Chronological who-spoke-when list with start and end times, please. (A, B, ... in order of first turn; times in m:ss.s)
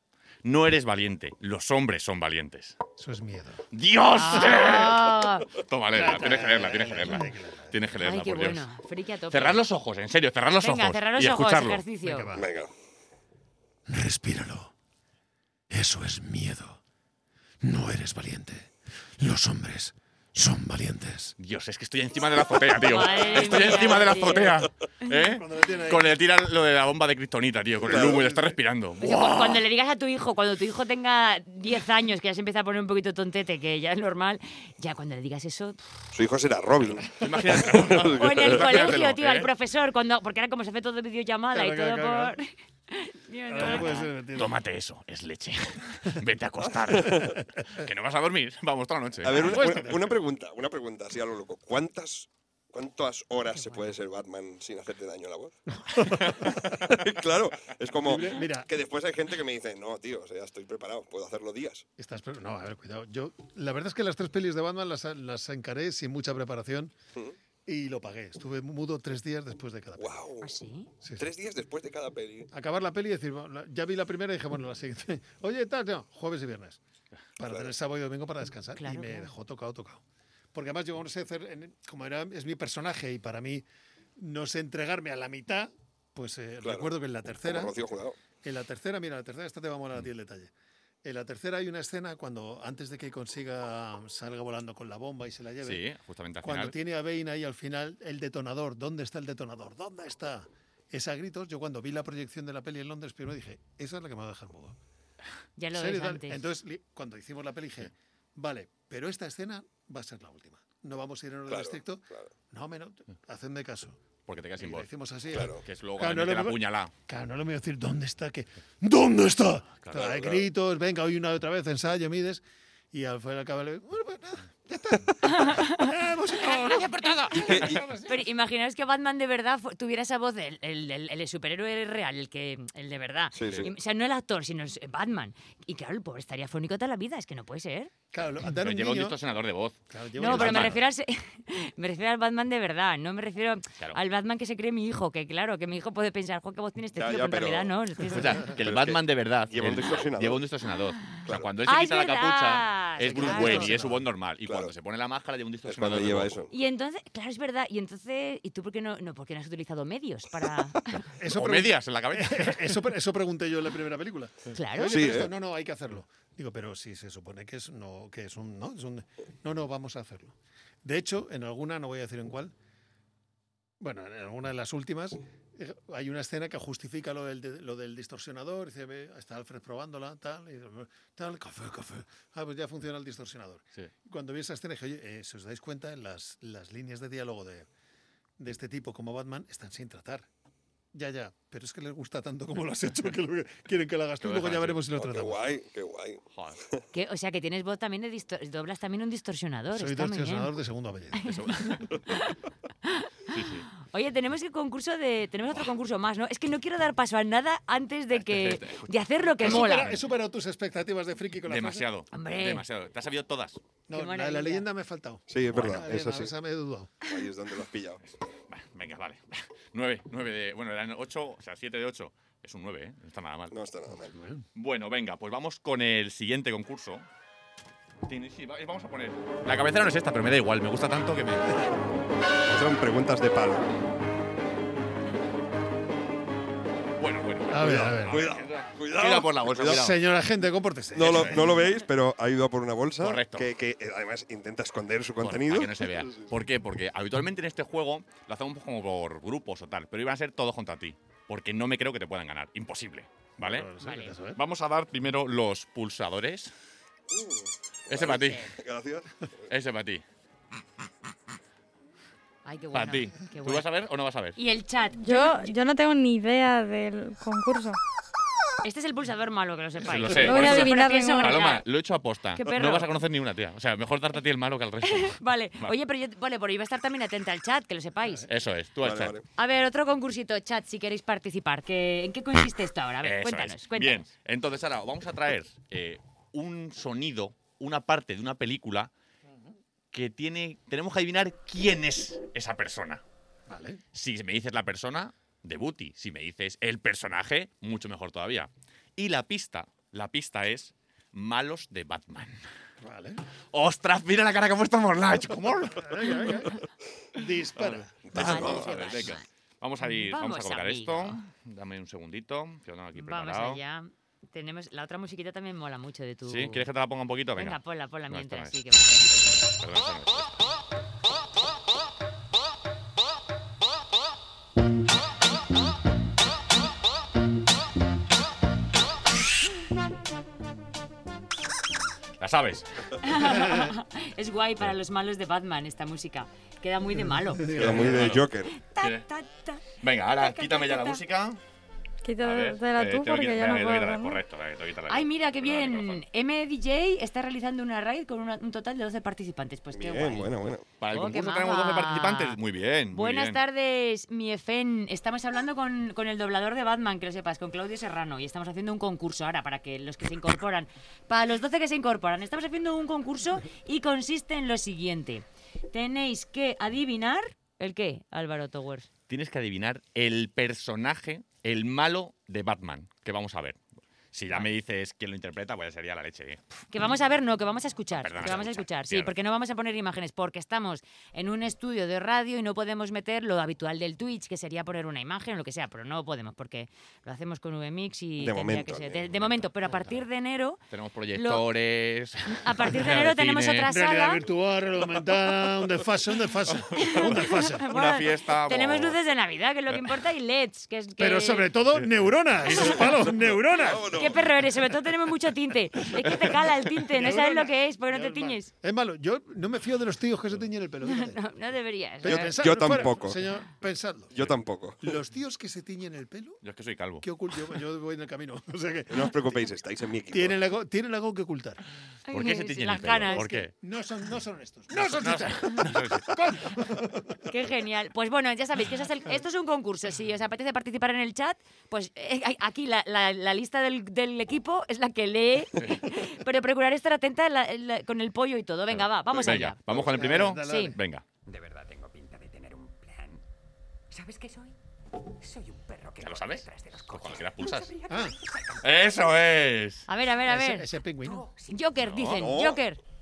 0:00.4-0:02.8 A
0:03.0-0:03.6 B
0:03.7-0:08.6 A
0:04.1-0:05.5 C
0:05.9-0:07.8 B
0:08.0-0:09.6 C
0:09.3-0:11.8 A
0:10.6-0:12.3 C
0:12.0-0:12.5 B
0:12.3-0:12.7 D
0:13.9-0:14.7 B
0:15.7-0:16.8 B
0:17.6-0:21.4 B
0:21.4-0:29.6 A
0:22.8-0:25.2 C
0:23.0-0:24.2 B
0:25.2-0:26.2 B
0:27.8-0:28.2 D
0:27.8-0:28.6 B
0:29.0-0:35.8 C
0:36.1-0:38.7 D
0:37.0-0:39.5 A
0:38.1-0:44.1 C
0:41.5-0:42.4 B
0:43.5-0:44.6 B
0:43.6-0:49.6 A
0:47.0-0:47.2 D
0:47.1-0:47.8 B
0:49.2-0:55.6 D
0:49.4-0:50.2 B
0:53.6-0:53.9 C
0:55.8-0:56.9 B
0:56.4-1:01.9 D
0:58.0-0:58.7 B
1:02.0-1:07.0 B
1:07.7-1:10.2 B
1:10.0-1:10.5 D
1:10.4-1:10.9 C
1:11.0-1:11.3 B
1:11.2-1:12.5 D
1:12.5-1:16.8 B
1:17.4-1:20.0 B
1:17.5-1:17.7 D
1:18.8-1:19.3 C
1:20.5-1:23.6 B
1:24.2-1:27.7 B
1:26.6-1:28.2 D
1:28.4-1:30.5 B
1:31.0-1:35.8 B
1:35.6-1:36.8 A
1:36.4-1:44.8 B
1:45.6-1:46.4 C
1:45.7-1:54.0 B
1:51.5-1:52.3 D
1:54.3-1:56.9 A
1:54.6-2:08.3 B
1:55.3-1:55.6 D
1:59.9-2:00.5 D
2:05.3-2:05.9 C
2:06.5-2:07.8 A
2:07.3-2:07.8 D
2:08.1-2:17.9 C
2:13.3-2:13.7 D
2:13.4-2:13.7 A
2:18.1-2:19.2 B
2:18.5-2:20.8 A
2:19.9-2:20.8 B
2:20.2-2:28.4 C
2:27.0-2:27.7 D
2:28.1-2:36.4 A
2:28.5-2:30.5 D
2:31.2-2:31.5 D
2:31.6-2:33.7 C
2:33.1-2:34.0 B
2:34.5-2:34.7 D
2:35.6-2:36.5 D
2:36.5-2:41.1 C
2:41.2-2:52.5 B
2:41.3-2:42.8 A
2:44.5-2:45.2 C
2:44.9-2:45.3 D
2:53.8-3:07.7 B
3:08.4-3:10.3 B
3:10.9-3:15.4 B
3:14.2-3:14.8 A
3:14.9-3:16.8 D
3:16.3-3:16.6 A
3:16.9-3:20.5 C
3:19.7-3:21.9 B
3:21.2-3:23.1 C
3:21.3-3:21.6 A
3:23.3-3:23.7 A
3:23.8-3:30.0 C
3:28.2-3:28.9 A
3:29.4-3:29.7 A
3:29.4-3:31.9 B
3:31.5-3:33.6 A
3:32.1-3:32.6 C
3:33.9-3:37.0 B
3:33.9-3:34.7 C
3:35.3-3:36.3 D
3:35.5-3:35.9 A
3:37.0-3:38.0 D
3:38.5-3:43.6 A
3:43.5-3:44.1 D
3:44.1-3:44.4 B
3:44.6-3:47.1 A
3:48.1-3:51.6 A
3:52.5-3:53.8 D
3:57.0-4:00.0 A
3:57.5-3:58.2 B
3:57.6-3:59.8 D
3:59.6-4:01.6 B
4:00.9-4:06.3 D
4:01.0-4:01.4 A
4:03.0-4:03.5 A
4:05.2-4:13.7 A
4:13.4-4:14.4 B
4:13.8-4:14.2 C
4:14.4-4:16.5 A
4:17.1-4:19.1 D
4:17.9-4:18.5 A
4:19.5-4:20.0 A
4:22.4-4:23.7 C
4:22.7-4:24.4 A
4:24.4-4:25.6 C
4:25.0-4:27.8 E
4:28.6-4:31.7 C
4:29.9-4:35.7 A
4:30.2-4:31.5 E
4:32.4-4:32.9 C
4:34.9-4:38.3 C
4:38.3-4:39.2 A
4:38.8-4:39.2 D
4:39.4-4:44.1 C
4:43.0-4:48.9 A
4:49.9-4:53.0 A
4:53.5-4:53.8 B
4:53.9-5:02.4 A
5:02.8-5:03.2 B
5:03.5-5:06.3 A
5:05.7-5:06.6 B
5:07.2-5:08.4 B
5:07.6-5:13.6 A
5:08.0-5:09.1 D
5:08.1-5:09.2 C
5:09.8-5:11.2 C
5:13.0-5:16.7 C
5:16.2-5:18.6 A
5:17.4-5:19.1 C
5:19.6-5:20.4 A
5:32.2-5:32.7 A
5:33.0-5:37.7 C
5:33.2-5:33.6 B
5:37.0-5:38.1 B
5:37.6-5:38.5 D
5:37.7-5:38.3 A
5:38.6-5:39.7 C
5:38.8-5:39.0 A
5:39.8-5:41.4 A
5:40.2-5:41.0 C
5:42.0-5:44.2 E
5:42.2-5:46.0 A
5:44.9-5:50.3 C
5:49.7-5:50.7 D
5:50.8-5:53.4 A
5:50.9-5:52.4 C
5:52.9-6:08.9 C
6:09.1-6:13.6 A
6:14.1-6:16.6 A
6:16.7-6:30.6 C
6:17.9-6:19.1 A
6:28.2-6:29.5 D
6:30.7-6:33.7 A
6:31.2-6:31.4 C
6:32.3-6:34.2 C
6:33.7-6:37.7 B
6:36.5-6:39.0 A
6:36.8-6:41.5 C
6:41.0-6:44.1 B
6:42.4-6:43.0 A
6:43.5-6:44.3 D
6:43.9-6:48.5 C
6:46.9-6:51.2 B
6:50.8-6:52.4 C
6:52.0-6:54.2 B
6:52.0-6:53.3 D
6:54.1-6:54.9 D
6:54.8-6:56.4 B
6:56.4-6:57.1 A
6:57.0-6:59.3 B
6:58.9-7:00.4 D
7:00.1-7:01.6 B
7:02.1-7:03.2 C
7:02.1-7:03.5 A
7:03.1-7:07.3 B
7:04.7-7:06.2 A
7:07.3-7:19.6 C
7:18.7-7:21.0 A
7:19.7-7:20.8 B
7:20.4-7:20.8 C
7:21.3-7:23.2 F
7:23.9-7:24.6 F
7:25.2-7:29.0 F
7:26.0-7:27.7 A
7:27.9-7:28.2 B
7:28.6-7:29.9 A
7:29.9-7:30.7 C
7:30.3-7:31.3 B
7:31.0-7:31.6 F
7:31.5-7:32.8 C
7:31.8-7:32.4 A
7:32.1-7:32.6 D